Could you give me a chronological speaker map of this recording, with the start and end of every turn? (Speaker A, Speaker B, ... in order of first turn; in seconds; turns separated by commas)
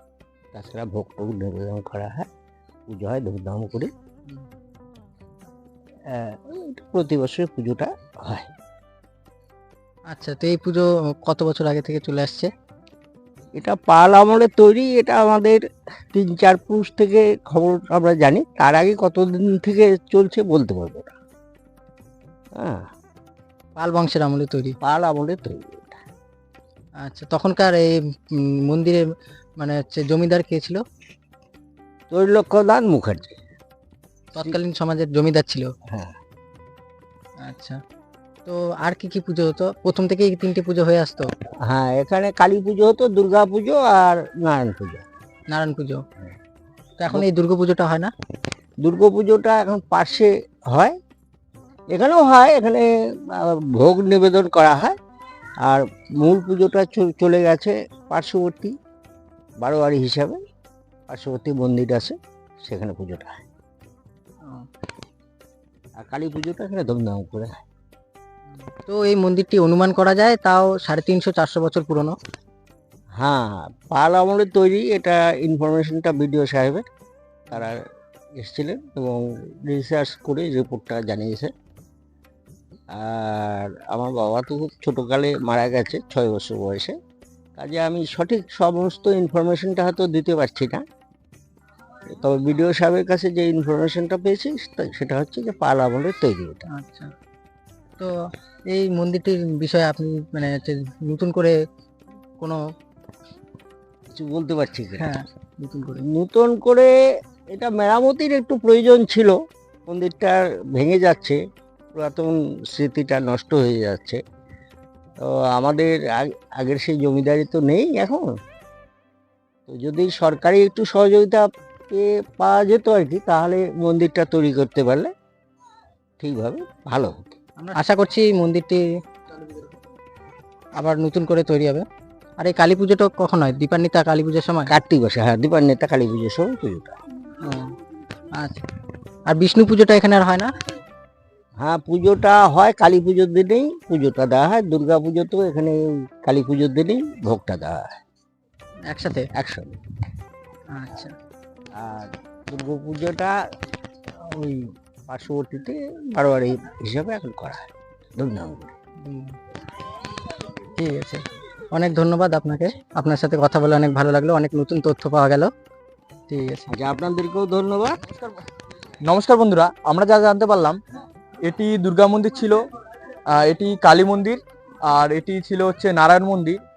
Speaker A: 0.5-2.3, Speaker A: 2.9-3.9, Speaker A: 6.1-8.5, Speaker B: 10.1-12.5, Speaker A: 13.6-21.1, Speaker A: 22.6-22.8, Speaker B: 23.8-24.8, Speaker A: 24.8-25.9, Speaker B: 27.0-29.1, Speaker B: 29.6-30.8, Speaker A: 32.1-33.4, Speaker B: 34.3-35.7, Speaker A: 35.9-36.2, Speaker B: 37.4-37.8, Speaker B: 38.5-41.3, Speaker A: 41.6-45.0, Speaker B: 45.5-46.0, Speaker B: 47.0-48.1, Speaker A: 48.8-51.0, Speaker A: 51.9-55.0, Speaker A: 55.6-58.8, Speaker A: 59.6-60.4, Speaker A: 61.1-63.4, Speaker A: 66.0-67.5, Speaker B: 68.7-72.2, Speaker A: 73.2-76.9, Speaker A: 77.5-77.8, Speaker A: 78.4-81.5, Speaker A: 82.9-87.0, Speaker A: 87.6-90.8, Speaker A: 92.1-96.7, Speaker B: 96.7-97.1, Speaker B: 98.7-101.6, Speaker A: 104.1-105.1, Speaker B: 105.0-106.0, Speaker A: 106.0-111.4, Speaker A: 111.9-114.2, Speaker A: 115.2-118.3, Speaker A: 119.7-125.1, Speaker A: 126.2-127.4, Speaker B: 127.6-128.8, Speaker B: 130.8-131.9, Speaker B: 132.4-134.7, Speaker A: 134.7-137.0, Speaker B: 137.4-137.8, Speaker B: 138.4-138.6, Speaker B: 139.3-140.5, Speaker A: 141.6-147.9, Speaker B: 148.9-149.3, Speaker A: 149.3-149.8, Speaker B: 150.7-151.2, Speaker A: 151.7-153.4, Speaker A: 154.1-158.7, Speaker B: 159.0-159.4, Speaker B: 160.6-165.5, Speaker B: 166.3-166.7, Speaker A: 166.7-168.0, Speaker C: 168.1-168.4, Speaker C: 169.1-170.8, Speaker C: 171.4-172.6, Speaker C: 173.3-176.6